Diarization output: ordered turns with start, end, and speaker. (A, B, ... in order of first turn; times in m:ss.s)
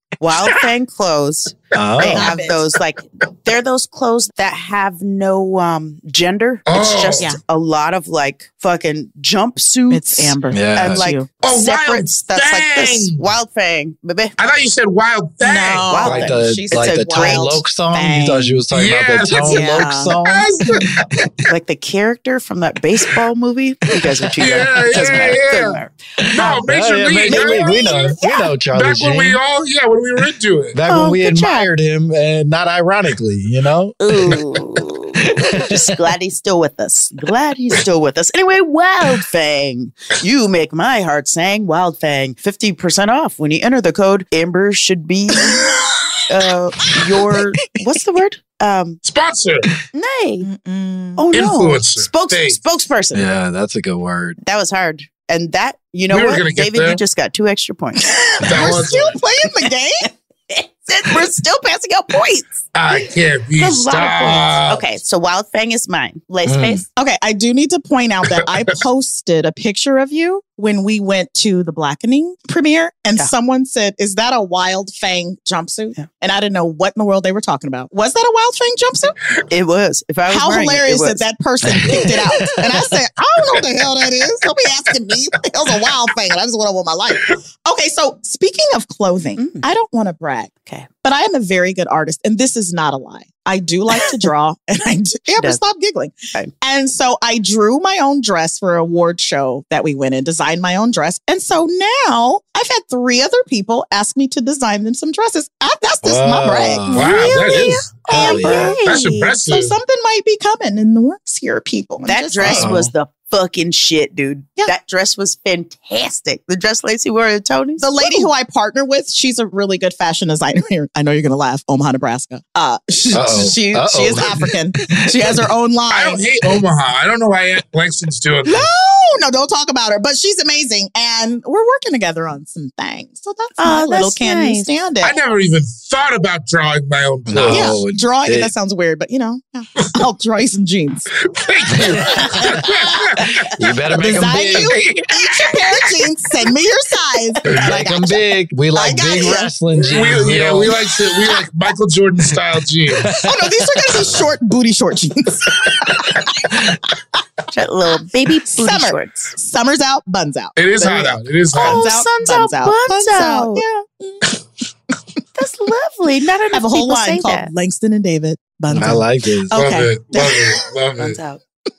0:00.2-0:14.3 A
0:01.7-0:02.3 B
0:02.0-0:02.6 C
0:06.7-0:07.3 D
0:09.9-0:11.3 C
0:10.5-0:11.1 B
0:11.4-0:13.2 D
0:14.4-0:16.2 D
0:15.4-0:18.6 C
0:15.8-0:17.6 A
0:16.1-0:20.5 B
0:18.7-0:21.0 D
0:19.4-0:20.2 C
0:21.5-0:25.9 A
0:24.4-0:28.2 D
0:26.2-0:29.4 B
0:28.7-0:30.8 D
0:30.7-0:36.1 B
0:30.8-0:31.7 A
0:34.0-0:45.7 A
0:46.3-0:49.0 A
0:49.0-0:49.7 D
0:49.9-0:50.5 A
0:50.4-0:51.2 C
0:51.2-0:53.3 A
0:51.3-0:52.6 D
0:53.1-0:54.4 B
0:54.4-0:58.7 A
0:56.1-0:57.0 D
0:58.0-1:00.1 C
0:58.4-0:59.2 D
1:00.5-1:02.5 A
1:02.7-1:04.8 D
1:03.6-1:06.8 A
1:06.4-1:06.8 B
1:07.0-1:19.2 C
1:19.5-1:21.2 A
1:20.3-1:52.8 C
1:21.7-1:22.1 B
1:29.4-1:29.6 A
1:30.6-1:30.9 A
1:46.0-1:47.3 B
1:46.9-1:48.0 D
1:47.3-1:47.6 A
1:48.1-1:48.8 B
1:48.1-1:49.3 A
1:48.8-1:49.8 D
1:52.0-1:58.3 A
1:52.4-1:52.9 B
1:57.8-2:06.2 C
2:03.1-2:05.4 B
2:05.9-2:08.7 D
2:08.4-2:15.1 C
2:13.6-2:14.7 A
2:15.0-2:17.8 D
2:17.3-2:18.5 B
2:17.5-2:21.1 C
2:21.2-2:23.5 D
2:21.8-2:22.5 B
2:23.5-2:24.7 B
2:23.9-2:28.2 C
2:24.3-2:25.4 D
2:27.4-2:27.7 D
2:27.6-2:30.7 B
2:28.7-2:29.5 C
2:29.8-2:33.1 D
2:30.1-2:30.4 C
2:33.0-2:33.5 B
2:33.2-2:36.6 C
2:37.5-2:39.3 A
2:38.4-2:44.3 C
2:40.6-2:41.9 D
2:41.5-2:43.6 A
2:45.4-2:47.5 A
2:46.5-2:50.6 C
2:48.7-2:49.6 B
2:49.5-2:51.2 D
2:51.0-2:51.4 A